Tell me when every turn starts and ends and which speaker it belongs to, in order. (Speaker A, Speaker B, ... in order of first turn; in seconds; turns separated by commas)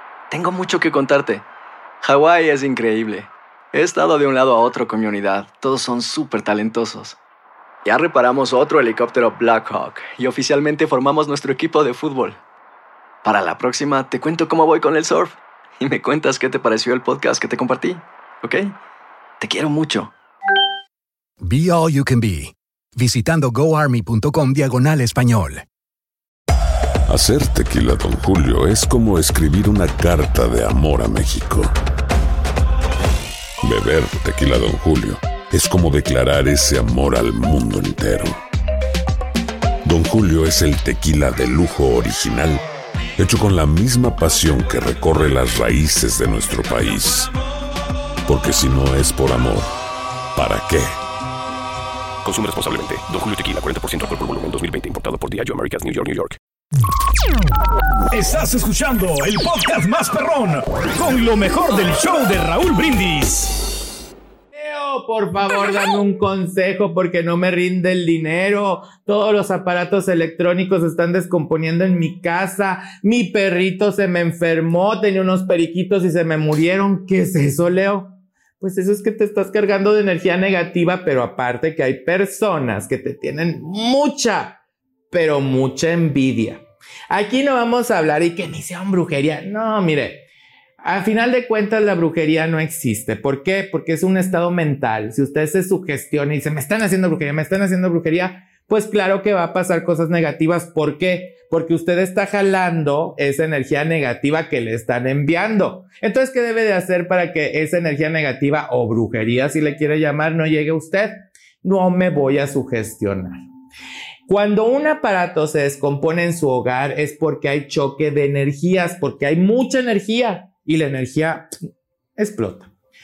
Speaker A: 0.3-1.4, Speaker A: 2.0-7.2, Speaker A: 7.8-12.4, Speaker A: 13.2-18.8, Speaker A: 19.4-20.1, Speaker B: 21.4-25.6, Speaker C: 27.1-31.7, Speaker C: 33.6-38.4, Speaker C: 39.8-42.6, Speaker C: 43.2-47.3, Speaker C: 48.3-49.7, Speaker C: 50.4-51.0, Speaker D: 52.2-56.4, Speaker E: 58.1-63.6, Speaker F: 64.5-84.6, Speaker F: 85.1-90.2, Speaker F: 90.8-113.4, Speaker F: 114.3-121.5, Speaker F: 122.2-122.7